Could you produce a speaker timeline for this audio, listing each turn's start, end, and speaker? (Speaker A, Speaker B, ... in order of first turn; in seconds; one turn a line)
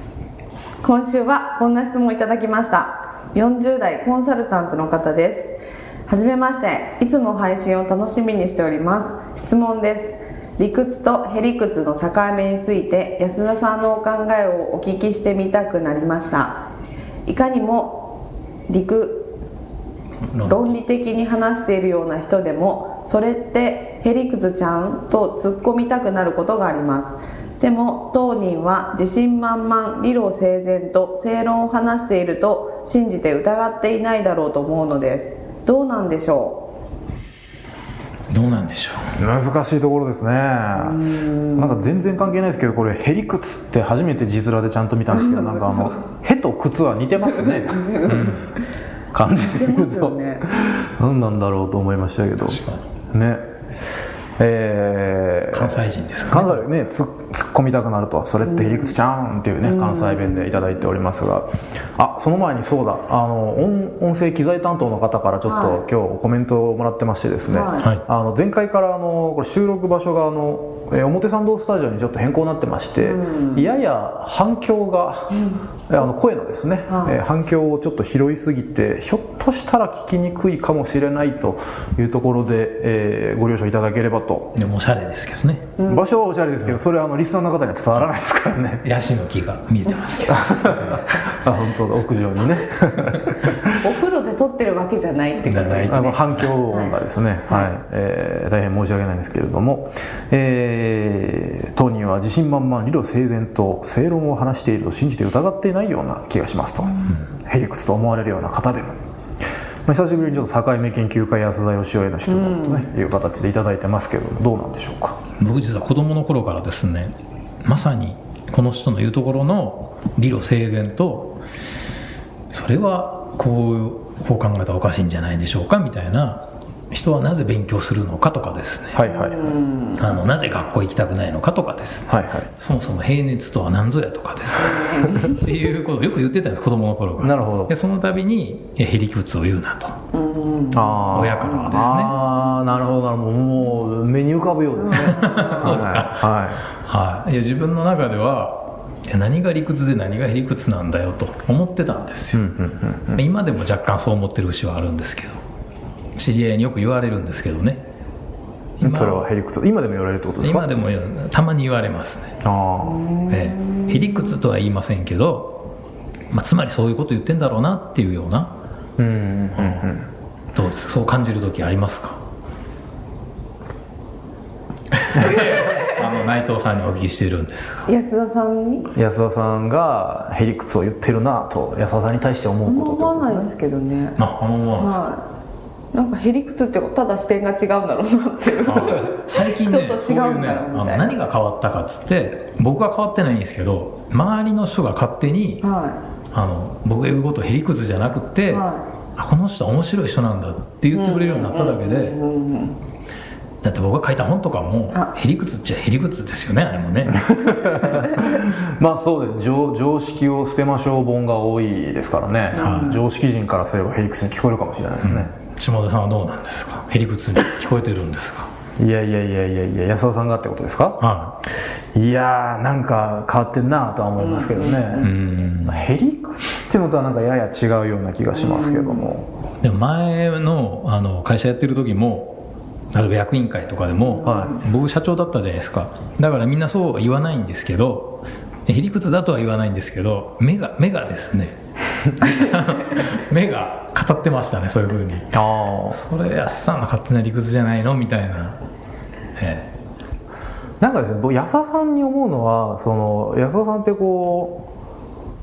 Speaker A: 0.8-5.5
Speaker A: 6.1-16.6
Speaker A: 17.2-18.1
Speaker A: 18.7-19.3
Speaker B: 20.3-20.8
Speaker A: 20.4-36.7
Speaker B: 38.3-39.1
Speaker C: 39.2-41.0
Speaker A: 40.8-41.8
Speaker C: 41.5-48.1
Speaker A: 45.1-46.0
Speaker A: 47.3-48.4
Speaker B: 48.0-48.4
Speaker C: 49.1-52.6
Speaker A: 49.3-50.5
Speaker B: 52.4-52.8
Speaker C: 53.1-53.4
Speaker C: 54.4-75.4
Speaker B: 55.5-56.6
Speaker A: 59.6-60.5
Speaker A: 65.5-65.8
Speaker A: 67.5-67.9
Speaker A: 73.0-73.6
Speaker A: 75.3-75.6
Speaker C: 75.9-84.5
Speaker A: 76.9-77.2
Speaker B: 84.5-85.7
Speaker A: 85.8-86.0
Speaker C: 85.9-88.8
Speaker B: 88.8-91.1
Speaker C: 90.3-93.7
Speaker A: 93.7-96.9
Speaker B: 95.4-96.5
Speaker C: 95.9-109.0
Speaker C: 109.8-115.2
Speaker A: 112.3-112.8
Speaker B: 115.4-117.1
Speaker B: 117.6-121.4
Speaker B: 122.5-129.0
Speaker C: 128.9-129.5
Speaker A: 129.1-130.0
Speaker B: 129.9-140.0
Speaker C: 132.1-132.5
Speaker A: 134.7-135.3
Speaker C: 137.2-137.7
Speaker A: 140.1-141.3
Speaker C: 140.7-146.6
Speaker B: 141.1-142.2
Speaker B: 144.9-152.4
Speaker A: 145.2-145.5
Speaker C: 152.3-153.2
Speaker B: 153.2-155.4
Speaker B: 156.2-157.8
Speaker B: 158.8-159.2
Speaker C: 158.8-160.7
Speaker B: 160.4-162.3
Speaker C: 162.4-163.1
Speaker A: 162.9-164.1
Speaker B: 163.3-165.6
Speaker B: 166.3-168.5
Speaker C: 169.0-170.1
Speaker B: 169.6-169.8
Speaker B: 170.5-172.2
Speaker B: 174.9-177.9
Speaker A: 177.9-178.9
Speaker C: 178.9-183.5
Speaker A: 182.7-184.2
Speaker B: 184.2-185.0
Speaker A: 184.8-185.2
Speaker A: 185.9-191.2
Speaker B: 188.7-195.6
Speaker A: 195.6-195.9
Speaker B: 196.3-198.6
Speaker A: 198.5-198.8
Speaker B: 199.2-202.2
Speaker A: 200.9-202.8
Speaker B: 203.6-207.2
Speaker C: 207.1-215.3
Speaker A: 212.5-213.0
Speaker B: 212.6-213.0
Speaker B: 215.0-218.5
Speaker C: 218.8-221.0
Speaker B: 221.0-221.4
Speaker C: 221.9-229.3
Speaker A: 224.2-225.1
Speaker B: 225.0-225.8
Speaker A: 228.3-229.1
Speaker B: 229.6-232.4
Speaker B: 232.9-241.6
Speaker A: 234.1-234.5
Speaker C: 234.2-234.5
Speaker B: 242.1-245.4
Speaker C: 245.3-246.0
Speaker B: 245.9-248.6
Speaker B: 249.4-249.7
Speaker C: 250.8-254.7